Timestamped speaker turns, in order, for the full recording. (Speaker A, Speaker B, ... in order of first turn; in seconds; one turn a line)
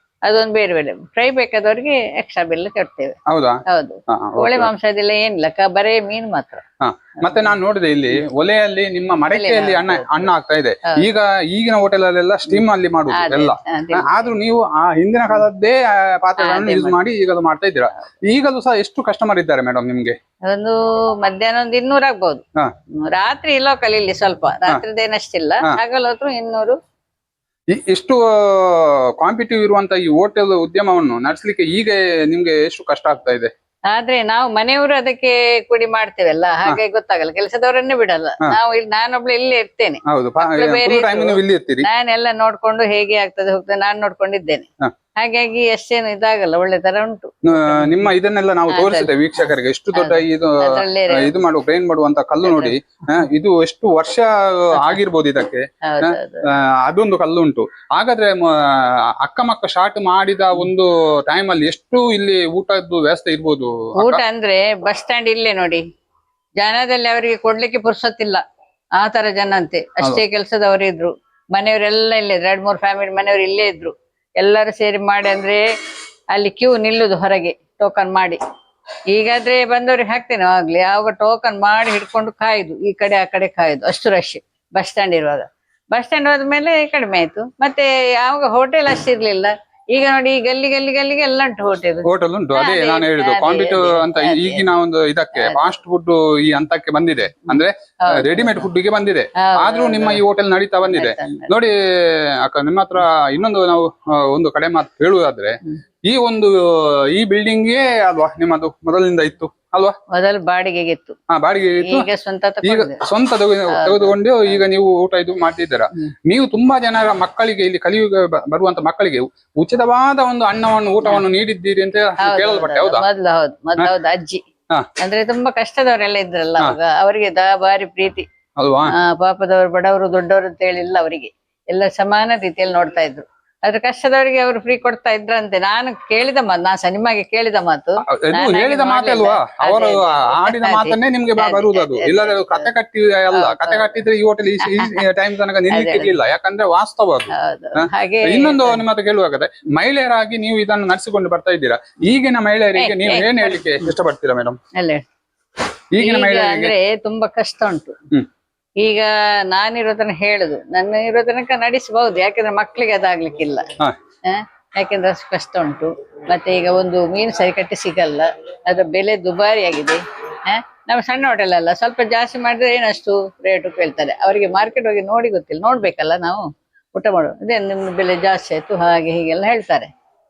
Speaker A: 0.3-3.2
Speaker B: 3.3-4.7
Speaker A: 3.7-6.6
Speaker B: 6.8-20.1
Speaker A: 9.3-10.3
Speaker A: 13.1-14.1
Speaker A: 16.4-17.0
Speaker A: 20.4-22.4
Speaker A: 23.1-26.8
Speaker B: 27.7-33.5
Speaker A: 33.9-47.3
Speaker B: 40.1-41.9
Speaker B: 47.5-56.2
Speaker A: 48.7-49.1
Speaker A: 50.0-51.3
Speaker A: 52.5-52.8
Speaker A: 55.9-56.5
Speaker B: 56.8-64.2
Speaker A: 64.0-65.8
Speaker A: 66.6-68.4
Speaker A: 69.0-75.6
Speaker A: 76.3-78.4
Speaker A: 79.1-94.6
Speaker B: 92.1-110.0
Speaker A: 98.1-98.7
Speaker A: 99.4-100.2
Speaker A: 100.9-101.5
Speaker A: 110.1-111.2
Speaker B: 111.3-112.1
Speaker A: 111.8-113.0
Speaker B: 112.6-123.0
Speaker A: 113.7-114.2
Speaker A: 122.2-124.4
Speaker A: 125.0-128.2
Speaker B: 128.6-128.9
Speaker A: 129.0-142.7
Speaker B: 138.1-154.6
Speaker A: 143.3-144.0
Speaker A: 144.6-145.0
Speaker A: 145.7-146.1
Speaker A: 147.3-148.8
Speaker A: 152.8-153.6
Speaker A: 154.8-155.0
Speaker B: 155.9-156.7
Speaker A: 156.0-158.0
Speaker A: 158.8-163.7
Speaker A: 164.3-179.9